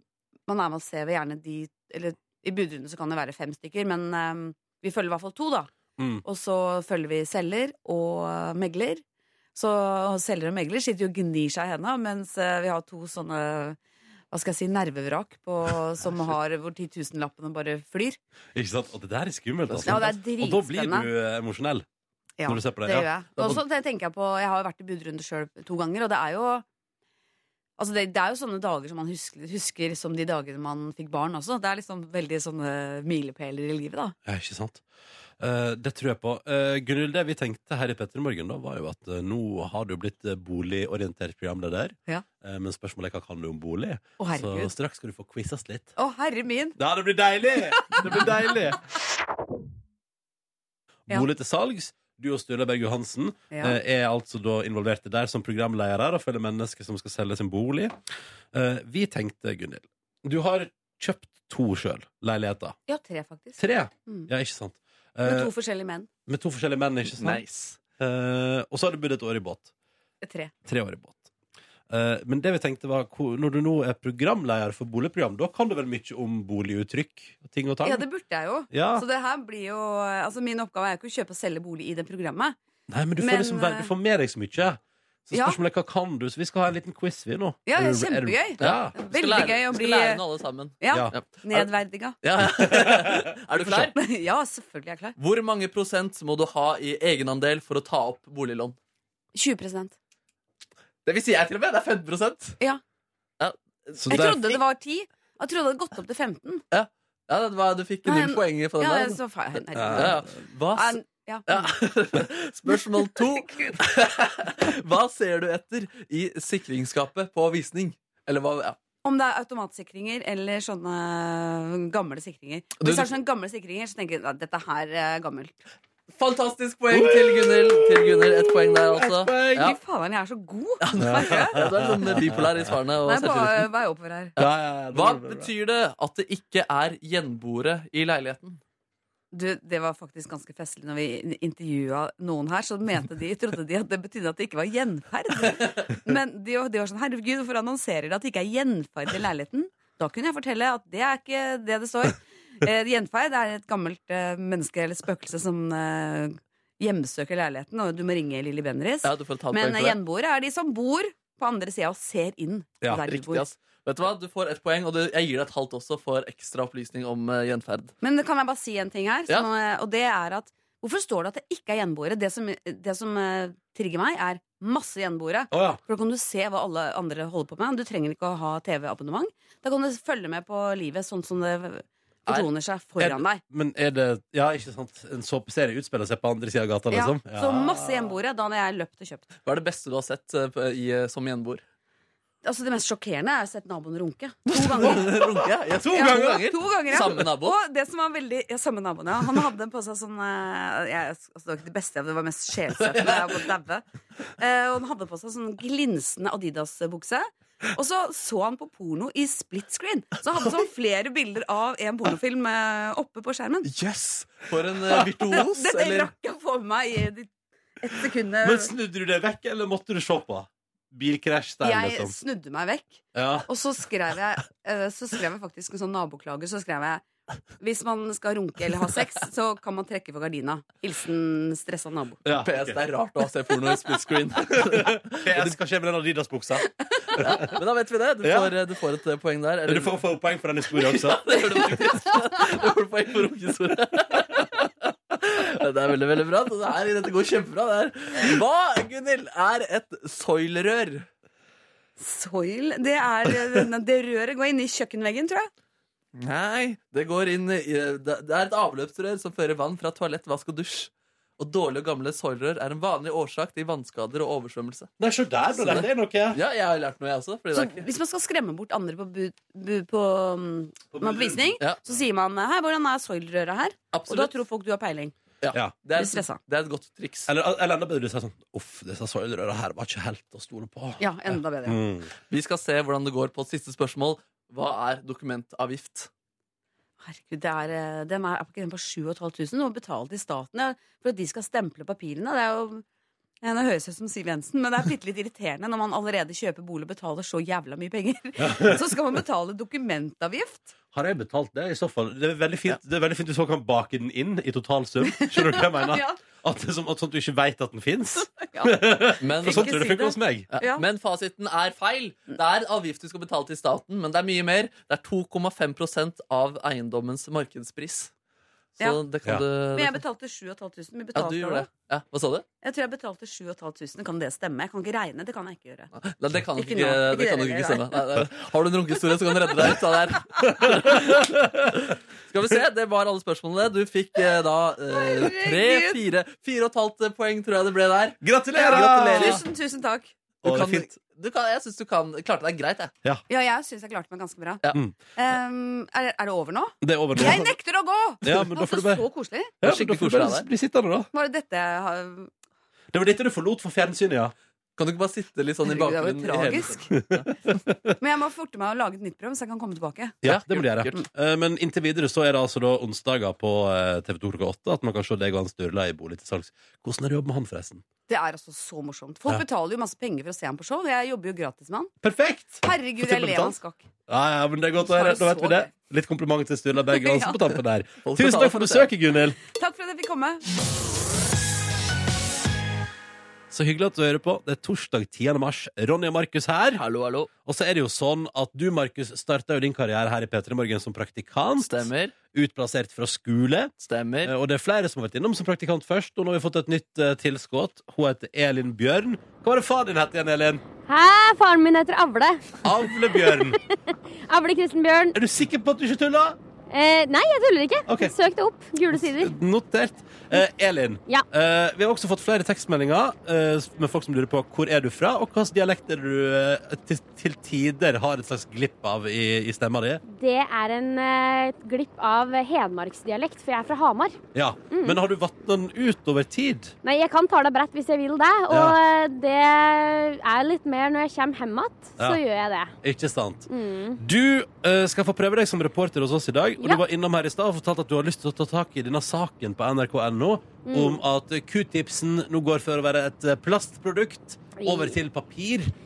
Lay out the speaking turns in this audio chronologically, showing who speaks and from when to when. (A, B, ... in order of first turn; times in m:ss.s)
0:00.5-0:05.7 A
0:06.0-0:06.2 B
0:06.2-0:09.0 A
0:09.5-0:13.8 A
0:14.3-0:18.2 A
0:18.5-0:21.8 B
0:19.7-0:20.1 C
0:19.8-0:21.1 A
0:22.4-0:26.6 A
0:22.5-0:23.5 B
0:27.8-0:34.1 A
0:34.2-0:34.8 B
0:35.4-0:45.9 B
0:44.2-0:44.7 A
0:46.0-0:46.8 A
0:46.8-0:48.8 B
0:47.6-0:48.5 A
0:51.1-0:58.0 B
0:53.5-0:53.8 A
0:58.5-1:02.8 B
1:02.9-1:04.3 A
1:03.6-1:05.5 B
1:05.2-1:06.1 A
1:06.3-1:07.4 B
1:07.1-1:07.8 C
1:08.0-1:09.7 B
1:10.2-1:10.5 A
1:10.6-1:11.3 B
1:11.9-1:18.0 B
1:17.8-1:22.6 A
1:18.7-1:19.0 B
1:22.9-1:28.9 B
1:23.2-1:23.9 A
1:25.3-1:25.6 A
1:27.6-1:30.2 A
1:28.6-1:31.7 C
1:30.8-1:32.2 A
1:32.2-1:33.9 C
1:32.4-1:33.9 B
1:33.9-1:35.2 A
1:35.2-1:38.8 C
1:39.3-1:39.9 A
1:41.0-1:42.6 C
1:43.4-1:44.2 C
1:44.0-1:44.5 B
1:44.1-1:46.6 A
1:46.7-1:49.2 C
1:48.0-1:51.8 A
1:49.8-1:50.2 B
1:49.8-1:58.8 C
1:53.0-1:53.8 A
1:59.0-2:05.6 A
2:02.8-2:03.1 C
2:06.1-2:09.8 C
2:06.9-2:09.7 B
2:09.5-2:11.6 A
2:10.8-2:13.7 C
2:11.0-2:12.7 B
2:13.0-2:14.3 A
2:14.4-2:15.5 B
2:14.4-2:18.6 C
2:19.3-2:43.5 A
2:39.0-2:40.0 C
2:43.0-2:47.9 C
2:48.0-3:03.4 A
2:55.5-2:55.8 B
3:03.0-3:08.1 B
3:06.9-3:09.3 A
3:09.4-3:11.6 C
3:12.4-3:15.4 A
3:14.5-3:17.6 C
3:15.8-3:16.2 B
3:15.9-3:23.8 A
3:24.4-3:33.7 A
3:33.6-3:36.1 C
3:35.2-3:38.7 A
3:38.4-3:42.1 B
3:41.6-3:47.0 A
3:43.1-3:43.5 B
3:47.6-3:52.2 A
3:52.2-3:52.8 B
3:52.3-3:55.6 C
3:54.5-3:57.4 B
3:57.2-4:00.0 C
3:58.2-3:58.5 B
3:59.6-4:01.4 B
4:00.9-4:11.1 C
4:12.0-4:15.5 A
4:16.1-4:24.9 C
4:25.0-4:26.4 B
4:25.6-4:27.9 C
4:27.5-4:35.1 A
4:30.9-4:31.5 B
4:33.9-4:34.3 C
4:35.4-4:37.3 C
4:35.9-4:36.4 A
4:37.3-4:42.1 B
4:41.0-4:41.8 A
4:42.3-4:46.1 C
4:47.0-4:52.8 A
4:53.4-5:00.7 A
4:58.4-4:58.8 B
5:00.9-5:10.5 B
5:05.0-5:06.2 A
5:08.4-5:10.8 A
5:09.2-5:09.9 C
5:10.5-5:18.1 C
5:18.8-5:20.0 C
5:19.7-5:21.7 A
5:21.1-5:22.4 C
5:22.6-5:25.9 A
5:25.9-5:39.4 C
5:26.5-5:28.0 A
5:30.6-5:31.7 B
5:34.9-5:36.0 A
5:38.2-5:39.4 B
5:38.5-5:40.1 A
5:40.4-5:40.9 B
5:40.4-5:42.9 C
5:43.3-5:44.6 A
5:45.2-5:49.6 A
5:46.8-5:47.5 B
5:48.2-5:49.0 B
5:49.6-5:51.1 B
5:49.6-5:50.4 C
5:51.1-5:52.3 A
5:52.9-5:54.3 B
5:54.8-5:57.3 C
5:55.6-5:56.9 A
5:57.0-5:57.9 B
5:58.0-6:00.2 A
6:00.2-6:07.8 B
6:00.2-6:01.0 C
6:08.1-6:11.9 A
6:12.0-6:13.6 B
6:12.6-6:13.9 A
6:14.1-6:19.4 B
6:14.8-6:15.7 A
6:16.8-6:17.4 A
6:18.0-6:18.9 C
6:19.4-6:20.4 A
6:23.5-6:26.8 B
6:26.7-6:27.3 C
6:27.4-6:33.7 B
6:31.6-6:32.1 C
6:33.8-6:34.3 C
6:34.2-6:40.6 B
6:40.8-6:45.2 D
6:42.6-6:43.6 B
6:45.1-6:46.4 B
6:46.7-6:49.3 D
6:47.9-6:48.1 B
6:48.9-7:00.0 B
7:00.0-7:04.2 D
7:04.3-7:06.7 B
7:04.7-7:05.0 D
7:06.8-7:12.7 D
7:08.5-7:08.8 B
7:12.8-7:25.7 B
7:13.5-7:14.0 D
7:20.6-7:21.0 D
7:24.6-7:25.0 D